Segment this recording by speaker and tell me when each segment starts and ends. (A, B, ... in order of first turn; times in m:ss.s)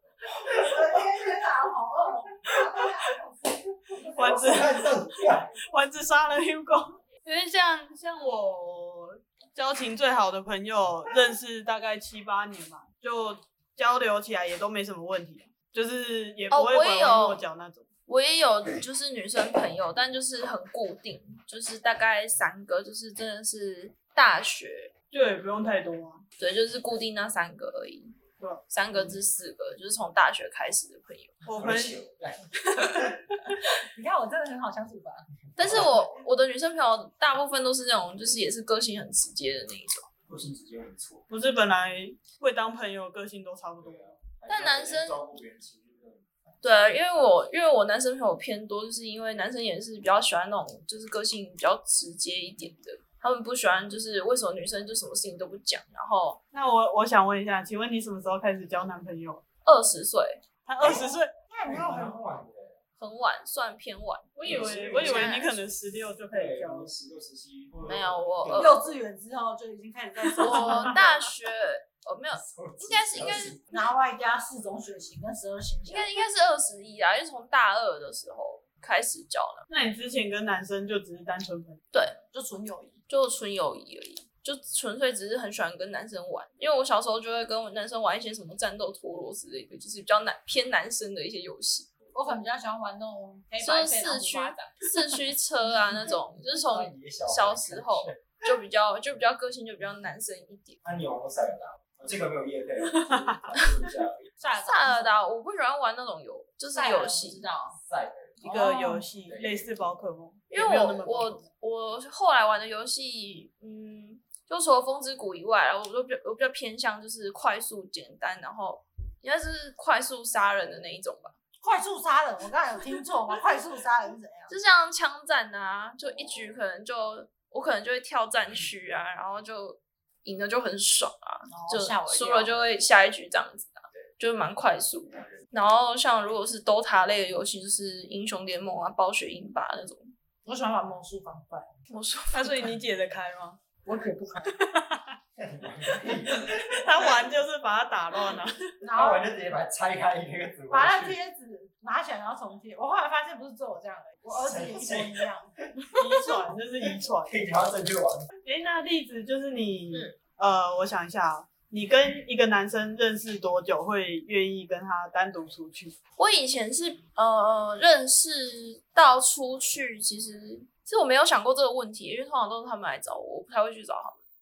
0:00.4-0:04.0 A
0:02.5-0:02.9 B
0:04.0-0:05.5 C
0:04.0-0:17.9 B
0:16.5-0:17.4 D
0:18.1-0:24.9 D
0:25.1-0:26.2 B
0:26.4-0:28.1 D
0:28.4-0:28.6 B
0:28.7-0:31.3 D
0:31.4-0:32.0 B
0:31.5-0:33.1 C
0:32.7-0:33.2 B
0:33.7-0:35.9 A
0:35.6-0:40.0 D
0:35.6-0:35.9 C
0:40.3-0:41.2 C
0:41.3-0:44.0 B
0:43.8-0:46.3 C
0:44.5-0:45.2 D
0:46.6-0:56.4 D
0:56.5-0:59.4 B
0:59.6-1:00.4 D
1:00.6-1:01.3 B
1:00.8-1:01.1 C
1:01.5-1:02.2 A
1:01.6-1:02.8 C
1:03.0-1:05.6 D
1:04.4-1:06.9 B
1:04.4-1:05.4 C
1:06.3-1:08.9 C
1:07.8-1:08.8 D
1:08.5-1:11.0 A
1:10.4-1:10.9 B
1:10.4-1:13.6 D
1:12.4-1:13.6 C
1:13.7-1:16.1 A
1:15.9-1:19.6 D
1:19.7-1:21.8 B
1:21.9-1:22.2 D
1:22.3-1:23.0 A
1:23.1-1:31.9 D
1:32.1-1:34.7 A
1:33.6-1:40.8 D
1:36.7-1:38.2 C
1:40.8-1:44.3 C
1:42.9-1:43.4 B
1:44.4-1:45.2 A
1:44.6-1:47.5 D
1:46.7-1:47.8 A
1:47.8-1:48.4 C
1:48.4-1:49.1 A
1:48.4-1:51.4 B
1:49.2-1:49.8 C
1:50.5-2:01.3 D
2:01.6-2:04.5 A
2:04.5-2:20.1 D
2:06.0-2:06.6 C
2:11.5-2:12.5 A
2:20.4-2:21.7 A
2:21.9-2:22.6 D
2:22.3-2:23.6 B
2:23.8-2:24.6 A
2:24.5-2:25.1 B
2:25.4-2:27.1 C
2:26.4-2:28.6 B
2:28.8-2:29.3 A
2:28.9-2:31.2 C
2:30.7-2:35.5 A
2:34.3-2:35.3 C
2:35.9-2:37.5 B
2:37.3-2:38.3 C
2:38.4-2:46.0 B
2:46.2-2:54.2 D